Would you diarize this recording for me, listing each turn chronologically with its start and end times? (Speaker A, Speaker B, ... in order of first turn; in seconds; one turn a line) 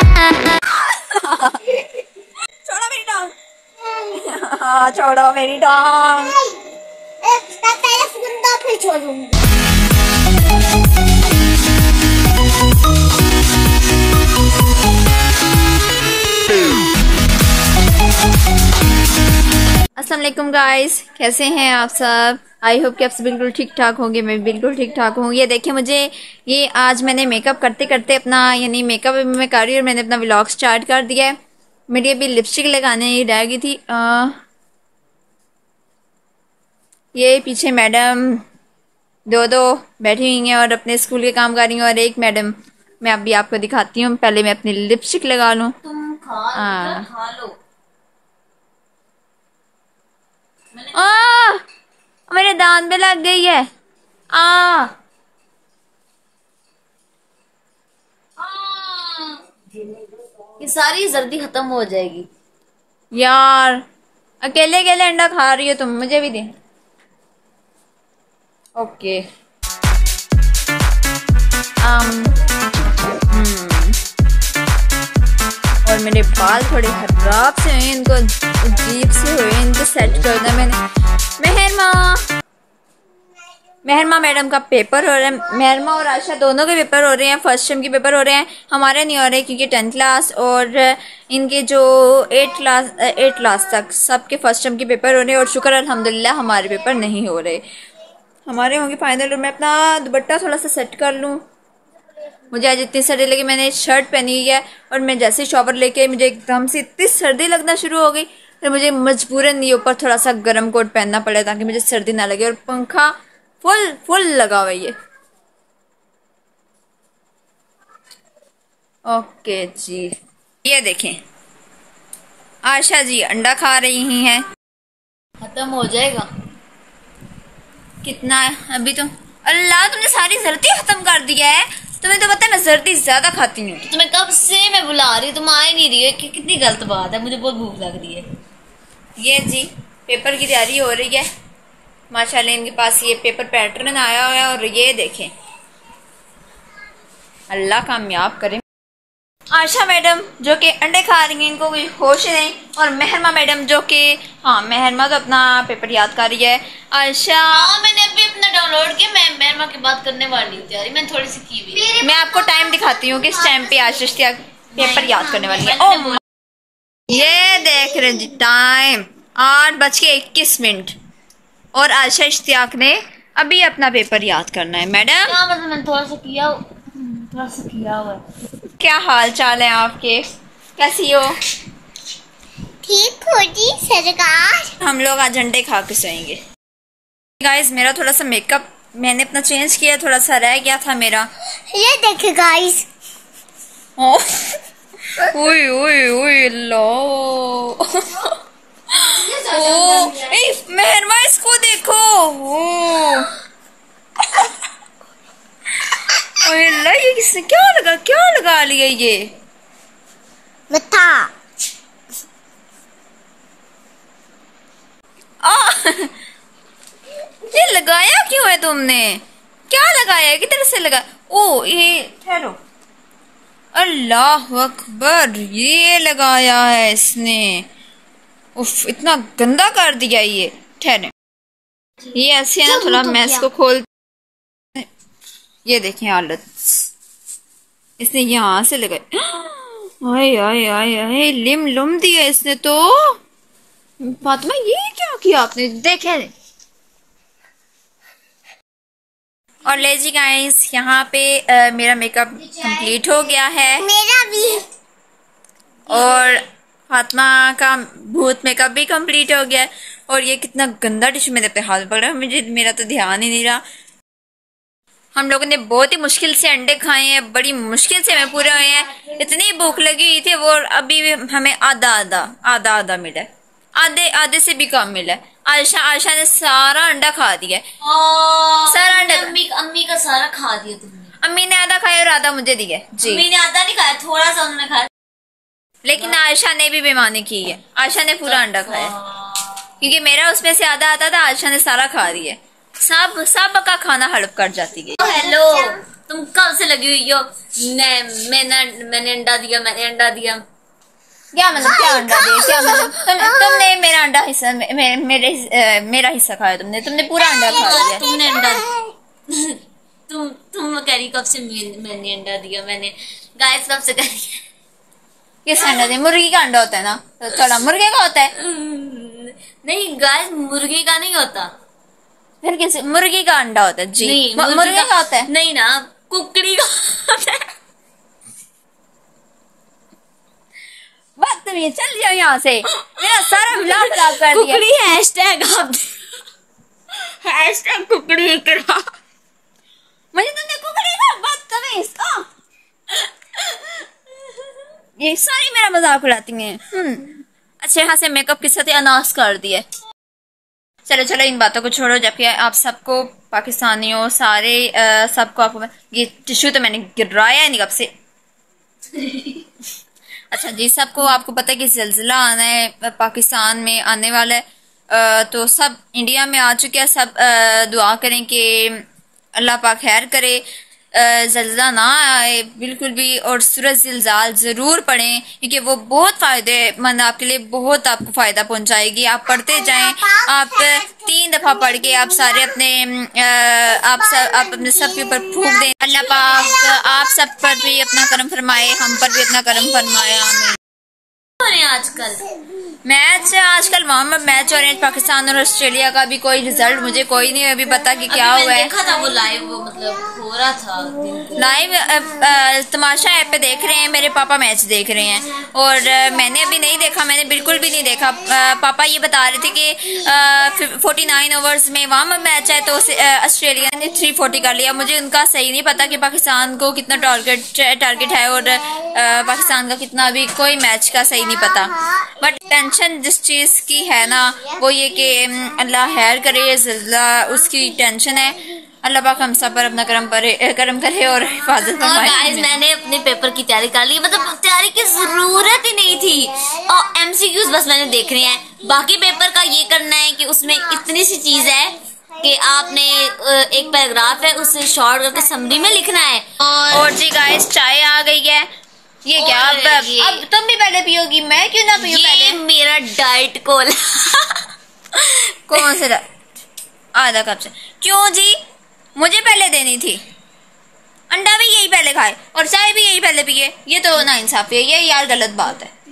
Speaker A: 0.6-1.9
Speaker A: 2.6-3.3
Speaker A: 4.1-6.4
Speaker B: 7.2-9.4
Speaker A: 20.0-31.4
Speaker A: 31.9-34.3
Speaker A: 37.1-38.4
Speaker A: 39.3-45.7
Speaker C: 45.8-47.5
Speaker A: 46.5-47.0
Speaker C: 50.8-51.3
Speaker A: 50.9-51.6
Speaker A: 52.3-53.7
Speaker A: 54.3-54.9
Speaker C: 58.4-62.3
Speaker A: 63.1-63.8
Speaker A: 64.4-66.5
Speaker A: 68.8-69.2
Speaker A: 71.8-72.4
Speaker A: 73.3-74.0
Speaker A: 75.8-80.8
Speaker A: 81.4-82.2
Speaker A: 83.8-97.6
Speaker A: 98.5-101.4
Speaker A: 102.5-114.9
Speaker A: 119.1-121.2
Speaker A: 122.6-124.5
Speaker C: 125.4-126.3
Speaker A: 128.0-133.9
Speaker C: 133.9-138.2
Speaker A: 139.2-141.3
Speaker A: 142.1-145.3
Speaker A: 147.5-148.6
Speaker A: 149.5-157.7
Speaker C: 157.5-162.0
Speaker A: 161.9-166.2
Speaker B: 162.0-162.2
Speaker B: 163.4-163.7
Speaker C: 164.7-166.2
Speaker A: 167.1-170.9
Speaker A: 171.8-175.3
Speaker C: 175.2-178.2
Speaker A: 178.8-180.2
Speaker A: 180.8-181.3
Speaker B: 182.8-184.7
Speaker A: 184.8-186.4
Speaker A: 187.4-191.3
Speaker B: 191.7-192.8
Speaker A: 194.0-194.6
Speaker A: 195.2-198.3
Speaker A: 198.9-203.3
Speaker C: 199.3-200.2
Speaker A: 206.3-209.3
Speaker B: 210.7-211.3
Speaker A: 215.4-216.1
Speaker A: 217.5-222.6
Speaker A: 223.7-227.7
Speaker A: 228.6-231.1
Speaker A: 232.1-233.8
Speaker A: 235.7-236.4
Speaker A: 238.0-243.2
Speaker A: 244.0-246.3
Speaker A: 249.7-253.9
Speaker B: 253.8-254.7
Speaker A: 255.9-263.6
Speaker A: 265.1-277.6
Speaker C: 277.8-281.1
Speaker A: 278.7-279.4
Speaker A: 281.2-283.2
Speaker C: 283.0-284.9
Speaker A: 285.8-288.9
Speaker C: 288.2-289.7
Speaker A: 289.8-295.2
Speaker C: 295.0-300.4
Speaker A: 301.3-308.0
Speaker B: 301.8-303.7
Speaker B: 307.2-308.9
Speaker C: 307.5-308.7
Speaker C: 309.3-314.4
Speaker A: 315.4-318.3
Speaker C: 315.6-315.9
Speaker C: 317.3-317.6
Speaker C: 318.4-321.5
Speaker A: 322.4-325.3
Speaker C: 324.0-327.4
Speaker A: 331.2-334.7
Speaker C: 332.7-335.9
Speaker C: 336.9-338.9
Speaker A: 340.1-342.2
Speaker A: 345.0-347.1
Speaker A: 347.6-349.6
Speaker A: 350.9-357.9
Speaker C: 358.9-359.5
Speaker A: 360.3-368.8
Speaker A: 369.4-370.4
Speaker A: 370.9-390.6
Speaker C: 391.4-392.3
Speaker A: 392.8-398.7
Speaker C: 398.1-401.6
Speaker A: 401.4-432.6
Speaker C: 431.7-446.9
Speaker A: 446.6-448.4
Speaker A: 449.1-452.4
Speaker C: 449.2-450.2
Speaker C: 451.8-455.8
Speaker A: 455.5-456.0
Speaker A: 456.9-458.4
Speaker A: 458.9-460.0
Speaker A: 461.1-465.7